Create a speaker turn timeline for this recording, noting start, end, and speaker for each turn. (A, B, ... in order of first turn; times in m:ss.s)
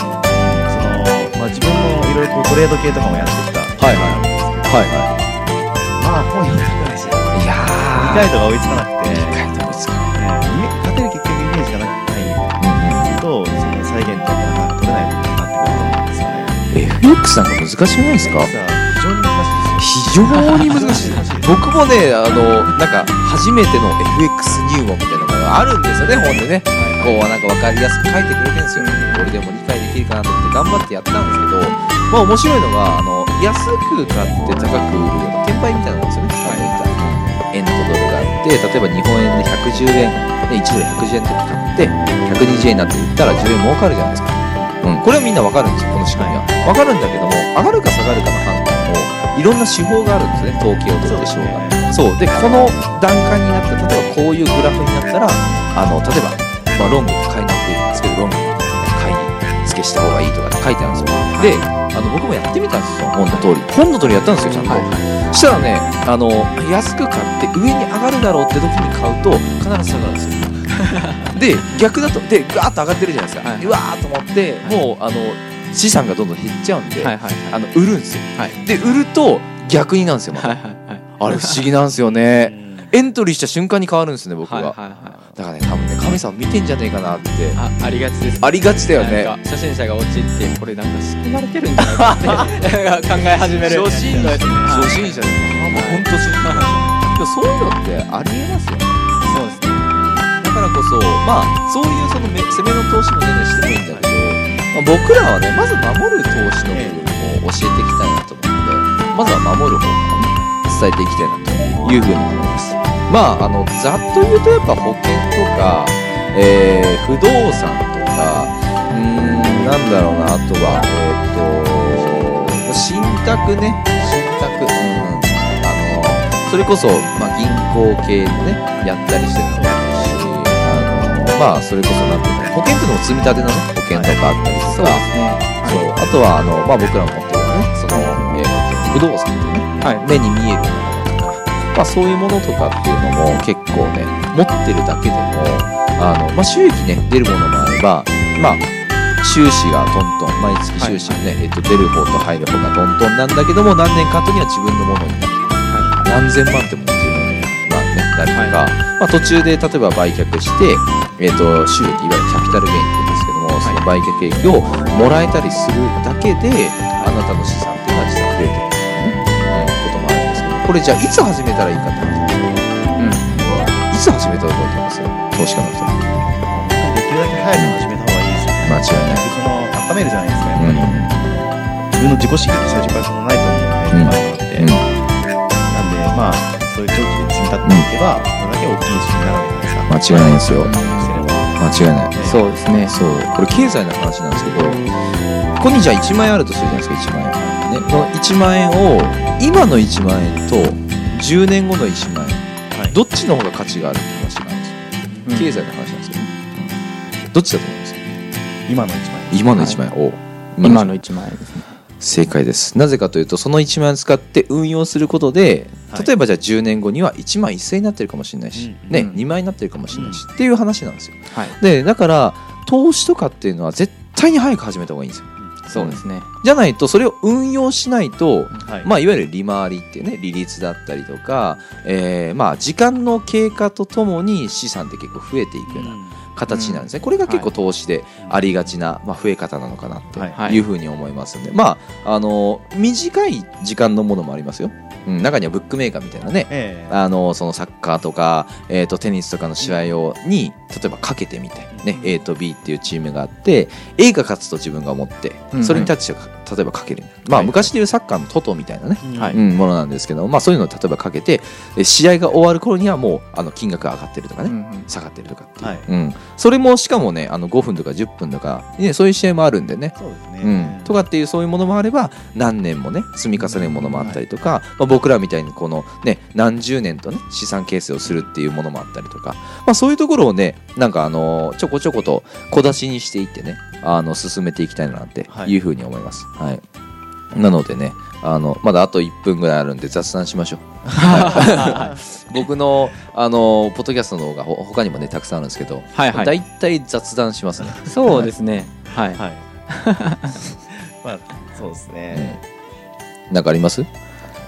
0:00.3-0:05.2 A
0:03.8-0:05.0 B
0:06.0-0:09.4 A
0:07.3-0:08.3 B
0:09.1-0:10.2 B
0:10.2-0:12.6 A
0:12.6-0:13.2 B
0:13.2-0:16.6 A
0:15.6-0:16.0 B
0:16.7-0:18.5 B
0:18.2-0:21.8 A
0:19.8-1:10.8 B
0:20.3-0:20.8 C
0:22.4-0:22.8 A
0:26.0-0:27.4 A
0:26.7-0:27.2 C
0:28.8-0:29.4 C
0:31.2-0:31.6 A
0:36.4-0:36.8 C
0:44.6-0:44.8 A
0:46.1-0:46.5 A
0:51.0-0:51.9 A
1:01.3-1:01.6 C
1:04.6-1:05.1 C
1:10.7-1:11.4 C
1:11.3-1:20.6 B
1:13.4-1:13.8 C
1:17.0-1:17.6 C
1:20.3-1:21.6 C
1:21.2-1:27.6 B
1:22.2-1:23.0 A
1:24.4-1:25.2 C
1:24.9-1:25.4 A
1:27.6-1:35.2 C
1:28.4-1:29.4 B
1:31.8-1:32.5 B
1:32.3-1:36.1 A
1:33.6-1:39.0 B
1:35.7-1:36.8 C
1:39.2-1:39.9 C
1:39.9-2:15.1 B
1:44.0-1:44.7 A
1:46.7-1:47.0 A
2:08.8-2:10.2 A
2:13.9-2:14.2 A
2:14.6-2:15.8 C
2:15.6-2:28.6 B
2:19.8-2:20.1 C
2:29.2-2:52.7 B
2:30.8-2:31.2 C
2:35.7-2:36.1 C
2:35.8-2:36.0 A
2:38.3-2:38.6 C
2:46.9-2:47.2 C
2:53.0-2:53.4 C
2:53.3-2:56.0 B
2:56.4-3:04.8 A
2:58.6-2:59.3 B
3:00.6-3:01.2 B
3:03.9-3:04.9 B
3:05.7-3:11.6 A
3:09.9-3:10.7 B
3:10.5-3:11.2 C
3:11.6-3:12.2 B
3:12.1-3:12.4 A
3:12.2-3:13.0 C
3:12.8-3:14.9 B
3:15.6-3:26.7 B
3:25.3-3:25.7 C
3:27.3-3:28.2 B
3:28.7-3:29.6 A
3:29.3-3:31.0 B
3:29.5-3:29.8 C
3:30.6-3:31.7 C
3:32.0-4:46.6 B
3:38.6-3:39.1 A
3:38.9-3:39.2 C
3:39.9-3:40.2 A
3:41.3-3:41.6 C
3:45.7-3:46.3 C
3:48.6-3:48.9 A
3:55.7-3:56.2 A
3:56.5-3:57.5 C
3:58.2-3:58.7 A
4:00.1-4:00.4 A
4:00.4-4:00.6 C
4:06.5-4:07.0 A
4:09.6-4:10.0 A
4:11.7-4:12.0 A
4:15.5-4:16.0 C
4:17.3-4:17.7 C
4:19.0-4:19.4 A
4:19.1-4:19.4 C
4:24.4-4:24.9 C
4:25.6-4:25.9 A
4:30.0-4:31.0 A
4:33.4-4:34.2 C
4:45.3-4:45.6 A
4:47.3-4:58.3 B
4:50.9-4:52.0 A
4:51.0-4:52.0 C
4:55.9-4:56.4 C
4:57.6-4:58.0 A
4:57.8-5:00.4 C
4:59.0-4:59.4 A
5:00.5-5:02.4 A
5:02.1-5:02.4 B
5:03.3-5:03.9 B